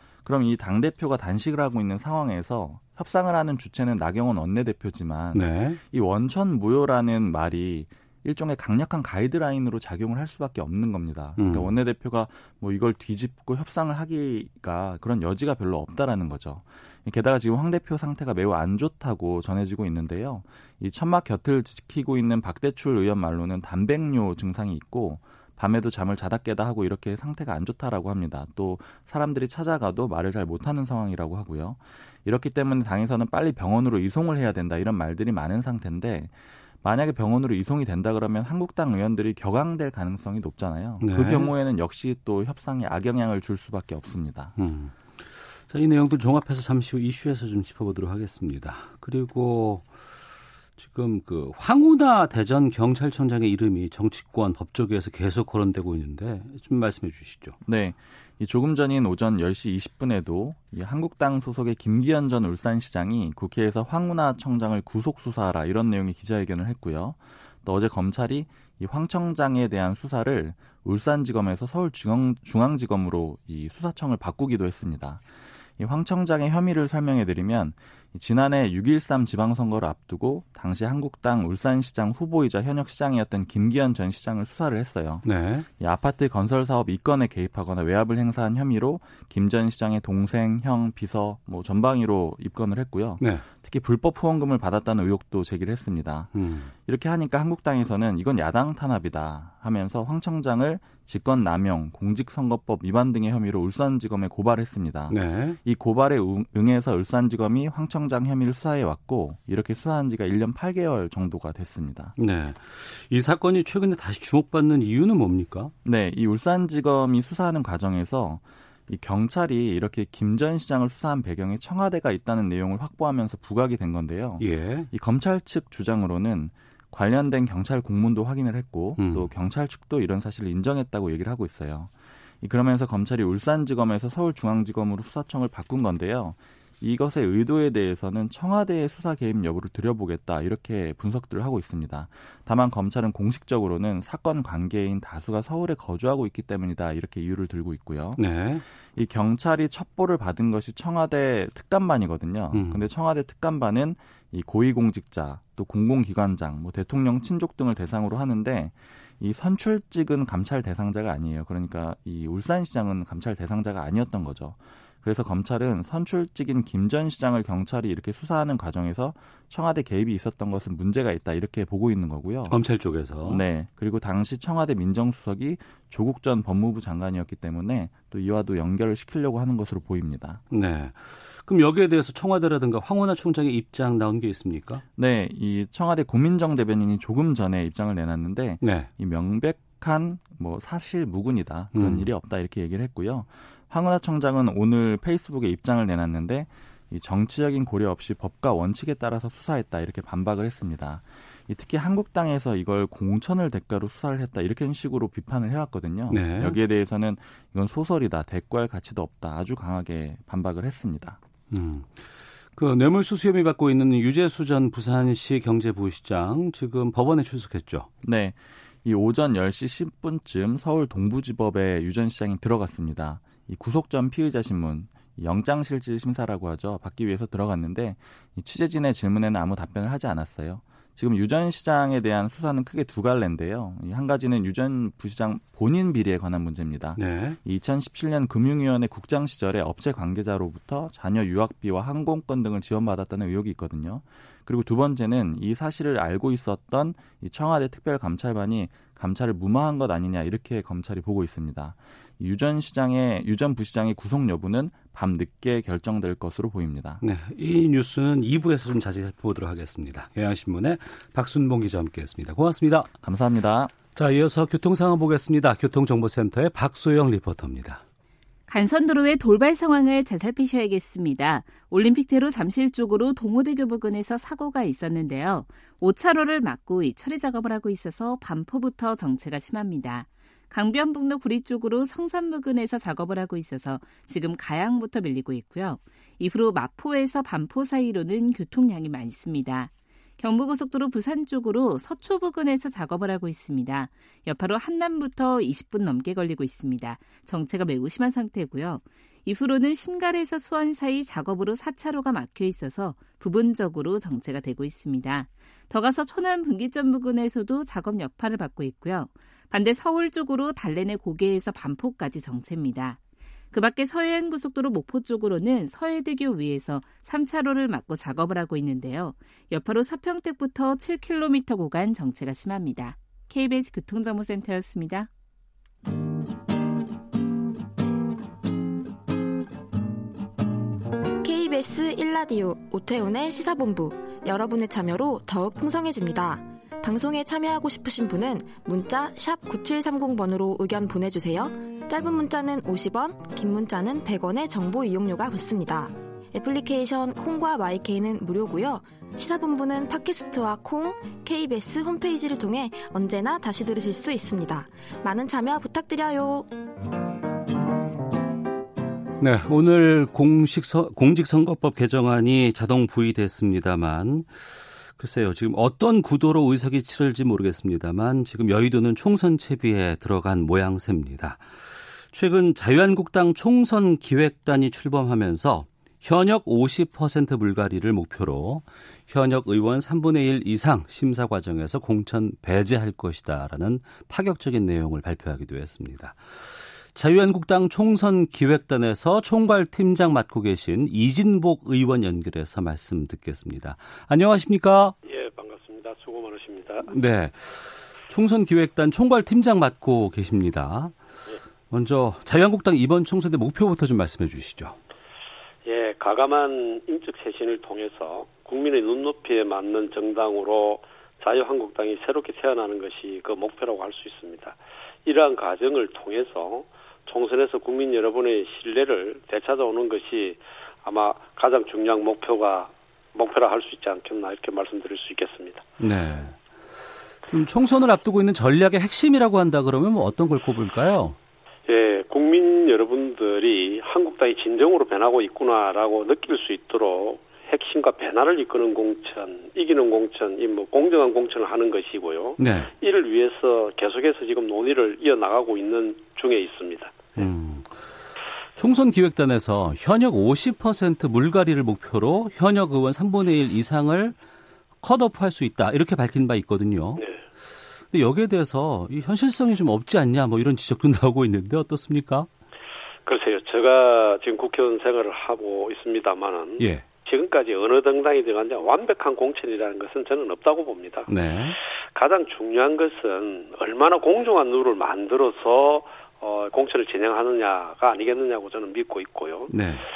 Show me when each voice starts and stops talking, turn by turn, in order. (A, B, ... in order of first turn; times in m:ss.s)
0:00.2-0:44.6 A
0:05.3-0:05.8 B
0:11.4-0:11.7 B
0:41.0-0:41.5 B
0:44.6-0:49.9 B
0:50.8-0:57.6 B
0:57.6-1:15.2 A
1:15.8-1:25.2 A
1:25.2-1:25.7 B
1:25.8-1:52.2 A
1:36.4-1:36.7 B
1:45.1-1:45.6 B
1:52.2-1:55.7 B
1:55.8-2:28.2 A
2:04.4-2:04.9 B
2:09.0-2:09.3 B
2:28.2-2:28.6 B
2:29.0-2:52.6 A
2:32.5-2:32.9 B
2:52.5-2:53.4 B
2:53.2-3:00.4 A
3:00.5-3:04.8 B
3:05.0-3:31.2 A
3:08.6-3:08.9 B
3:11.8-3:12.1 B
3:26.1-3:26.6 B
3:31.5-3:37.9 B
3:38.0-4:17.0 A
3:57.0-3:57.4 B
4:17.0-4:22.9 B
4:23.0-4:23.7 A
4:24.0-4:27.8 B
4:28.5-5:13.0 C
5:13.5-5:25.1 C
5:31.2-5:56.5 D
5:59.2-6:04.3 B
6:05.0-6:26.2 B
6:26.9-6:35.0 B
6:35.0-6:36.9 E
6:36.9-6:41.0 B
6:41.7-6:44.8 B
6:45.7-7:05.6 E
7:05.8-7:06.4 B
7:07.3-7:11.2 B
7:11.7-7:27.3 E
7:22.4-7:22.7 B
7:27.2-7:27.8 B
7:28.6-7:34.2 B
7:34.8-7:37.0 B
7:37.9-7:42.3 B
7:43.1-7:51.1 E
7:46.6-7:46.8 B
7:51.1-7:51.6 B
7:52.0-7:59.5 E
7:59.5-7:59.9 B